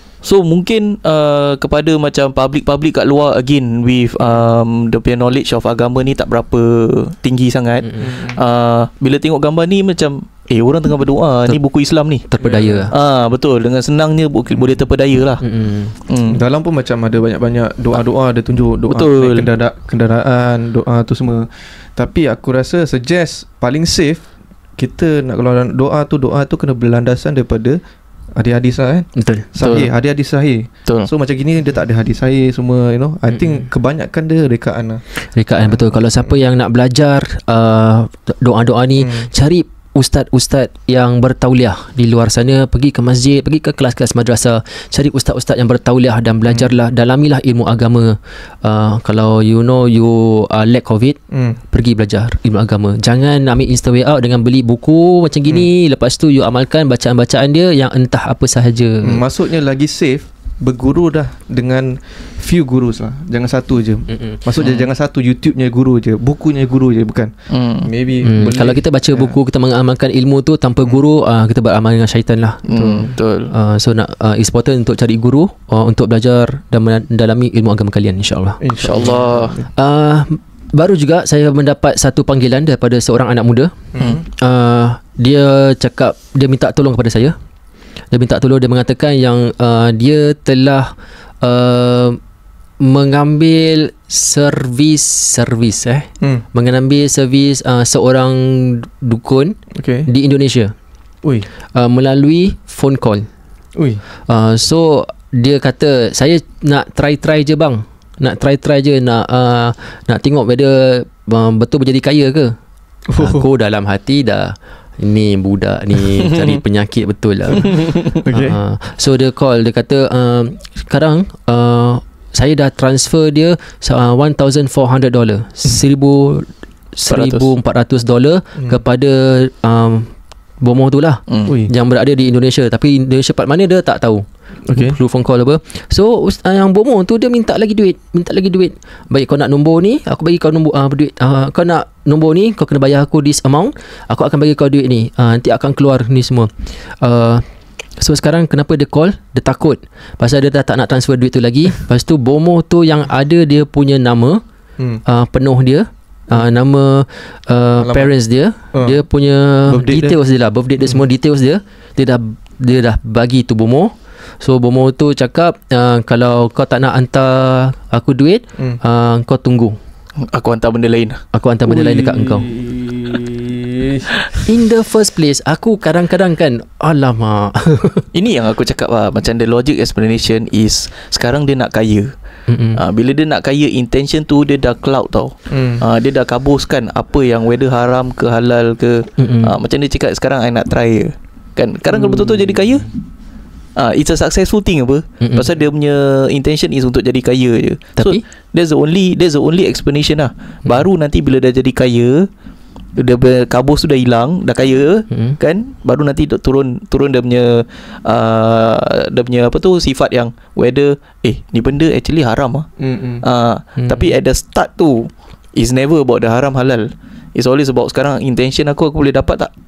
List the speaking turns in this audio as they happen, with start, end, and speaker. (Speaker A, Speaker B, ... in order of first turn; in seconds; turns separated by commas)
Speaker A: 0.2-12.3, Speaker B: 8.0-8.4, Speaker C: 12.3-12.9, Speaker B: 12.4-12.9, Speaker A: 12.9-15.4, Speaker C: 15.4-16.0, Speaker A: 16.1-16.4, Speaker B: 16.3-24.2, Speaker A: 18.9-19.5, Speaker B: 24.8-27.8, Speaker B: 28.4-35.0, Speaker C: 29.2-29.9, Speaker A: 29.6-29.9, Speaker C: 35.2-51.2, Speaker B: 39.0-39.3, Speaker B: 51.3-51.6, Speaker C: 51.7-59.2, Speaker B: 59.0-69.4, Speaker C: 64.1-64.8, Speaker A: 67.5-67.9, Speaker C: 68.2-72.6, Speaker A: 72.7-73.5, Speaker B: 72.7-73.1, Speaker C: 73.5-79.1, Speaker B: 78.6-79.7, Speaker A: 78.8-79.6, Speaker C: 79.8-83.7, Speaker B: 83.9-84.2, Speaker C: 84.2-87.4, Speaker C: 88.1-92.2, Speaker C: 92.8-99.6, Speaker B: 99.7-100.1, Speaker C: 100.1-100.7, Speaker C: 101.8-103.3, Speaker B: 103.8-104.0, Speaker C: 104.3-112.6, Speaker B: 113.1-113.5, Speaker C: 113.2-146.5, Speaker A: 116.1-116.6, Speaker A: 117.8-118.2, Speaker B: 118.2-118.6, Speaker A: 127.1-127.5, Speaker A: 131.3-131.6, Speaker B: 131.5-131.7, Speaker B: 134.7-135.0, Speaker C: 147.0-147.4, Speaker C: 148.0-154.4, Speaker C: 155.1-169.8, Speaker B: 157.8-158.1, Speaker B: 159.7-160.2, Speaker A: 170.2-171.2, Speaker C: 171.3-172.5, Speaker B: 171.7-174.2, Speaker C: 174.5-178.1, Speaker A: 178.1-182.1, Speaker C: 182.5-182.8, Speaker A: 182.8-192.9, Speaker B: 185.5-185.8, Speaker C: 189.2-189.5, Speaker B: 191.9-192.7, Speaker A: 193.8-202.3, Speaker C: 195.2-195.5, Speaker C: 198.0-198.2, Speaker A: 203.0-212.7, Speaker B: 212.8-213.2, Speaker A: 213.2-219.5, Speaker C: 213.8-214.1